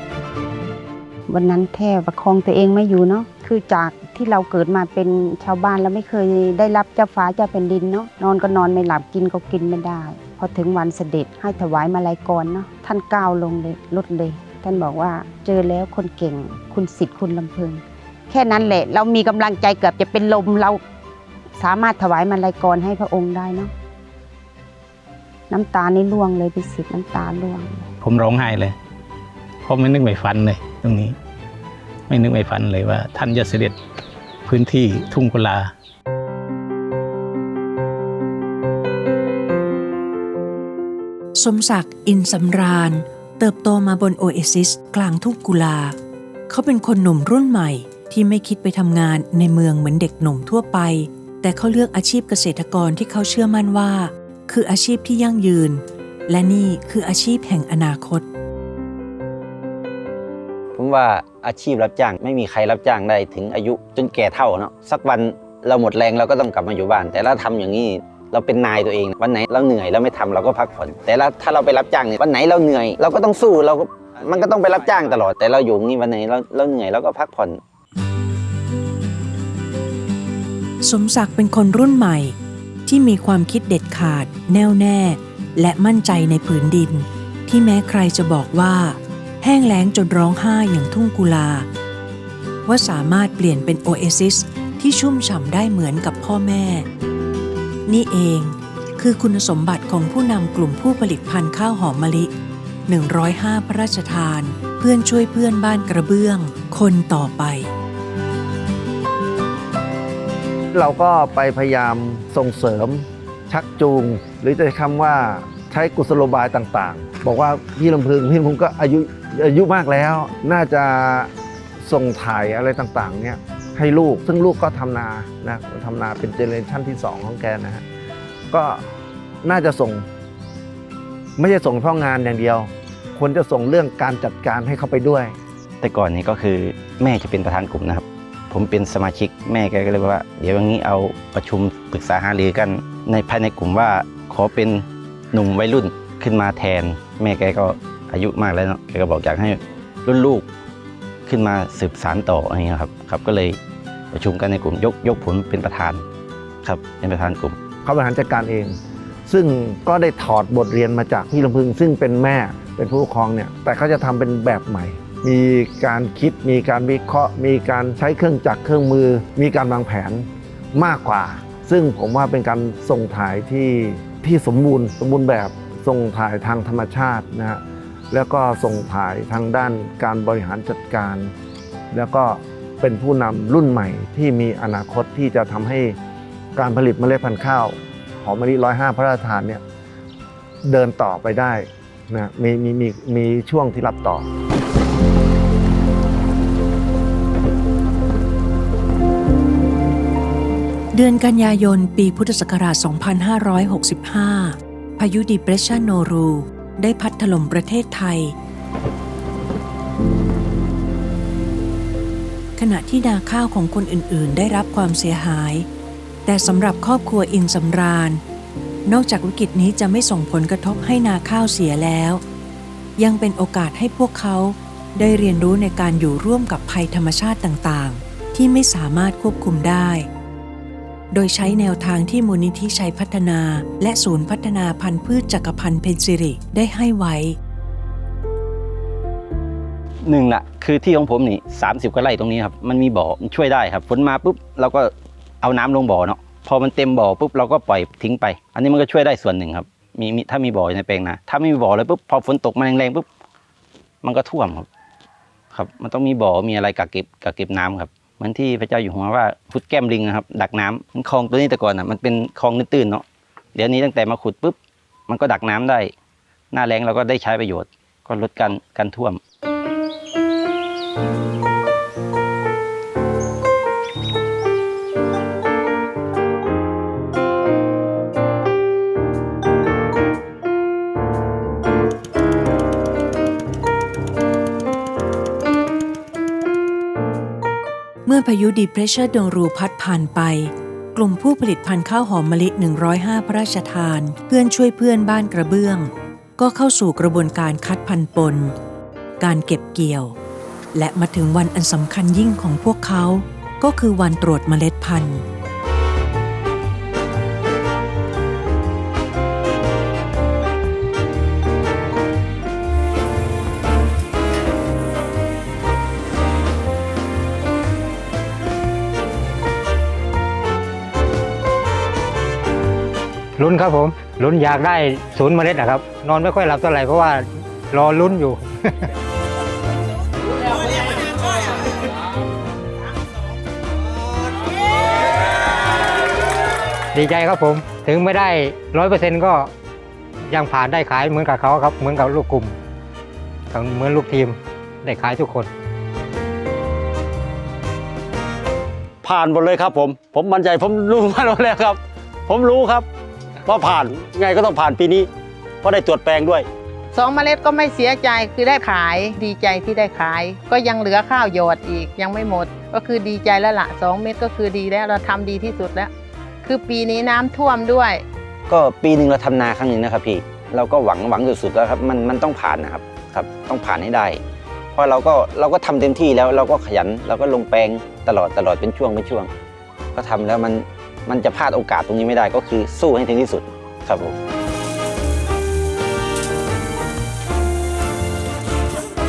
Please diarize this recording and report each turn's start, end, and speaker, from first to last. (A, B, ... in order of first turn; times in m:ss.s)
0:01.3-0:20.8 A
0:21.6-0:23.7 A
0:25.5-0:27.9 A
0:28.0-0:28.8 B
0:29.7-0:31.2 B
0:32.1-0:33.8 B
0:34.5-0:35.7 B
0:41.4-0:46.0 C
0:46.5-0:58.3 C
1:00.7-1:17.6 D
1:20.8-1:31.7 C
1:32.7-1:36.9 C
1:37.9-1:42.3 C
1:42.9-1:47.7 C
1:50.7-2:01.3 E
2:01.8-2:07.8 E
2:08.5-2:08.8 E
2:09.4-2:10.1 E
2:11.4-2:15.4 E
2:15.8-2:30.5 D
2:31.3-2:33.6 D
2:34.1-2:36.0 D
2:36.6-2:37.6 D
2:37.8-2:38.8 E
2:39.3-3:01.3 E
3:01.9-3:06.0 E
3:06.6-3:09.6 E
3:10.7-3:14.3 E
3:20.9-3:28.4 C
3:32.6-3:35.7 C
3:36.3-3:38.2 C
3:38.9-3:42.2 C
3:43.0-3:50.1 C
3:51.1-3:57.4 C
4:00.0-4:13.1 D
4:14.0-4:14.7 D
4:15.5-4:24.6 D
4:25.1-4:25.9 D
4:26.5-4:29.2 D
4:48.0-4:58.6 C
4:59.2-5:00.2 C
5:00.7-5:05.2 C
5:23.4-5:28.9 F
5:36.9-5:39.5 F
5:40.3-5:42.6 F
5:43.5-5:45.5 F
5:49.0-5:52.9 G
5:53.4-5:55.1 G
5:55.6-5:56.5 G
5:56.9-6:05.9 H
6:06.4-6:08.0 H
6:08.5-6:14.2 D
6:14.7-6:19.3 D
6:20.0-6:24.2 D